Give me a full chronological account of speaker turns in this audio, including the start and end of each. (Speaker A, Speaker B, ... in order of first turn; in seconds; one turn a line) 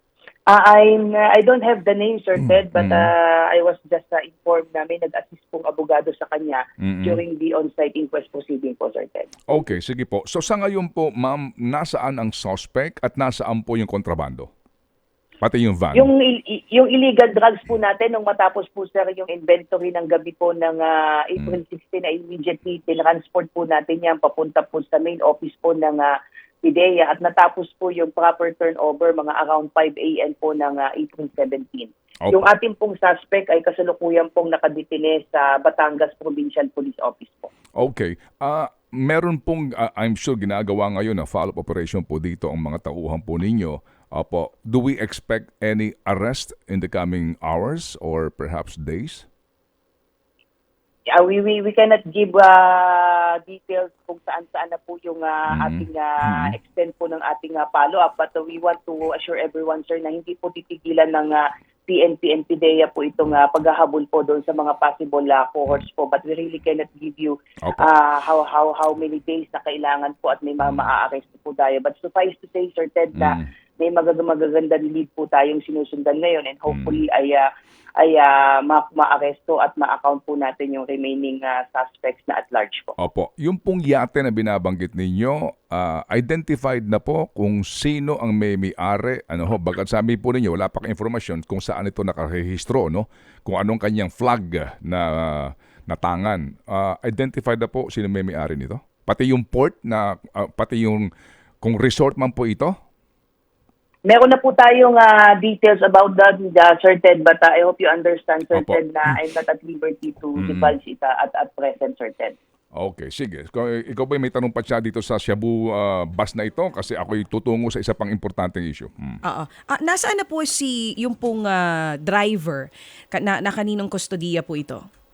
Speaker A: 0.5-9.6
Speaker B: 2.4-3.1
Speaker B: 6.8-7.2
Speaker B: 9.5-14.5
Speaker B: 15.4-16.1
Speaker A: 15.9-26.1
Speaker A: 26.6-37.5
Speaker B: 37.8-49.2
Speaker A: 51.1-77.5
Speaker B: 55.5-56.5
Speaker B: 67.6-67.9
Speaker B: 73.2-73.5
Speaker B: 76.7-77.0
Speaker A: 78.0-83.0
Speaker B: 83.0-101.1
Speaker B: 101.6-102.8
Speaker A: 104.1-112.4
Speaker B: 108.5-108.8
Speaker B: 110.4-110.7
Speaker B: 112.8-119.2
Speaker C: 119.2-124.8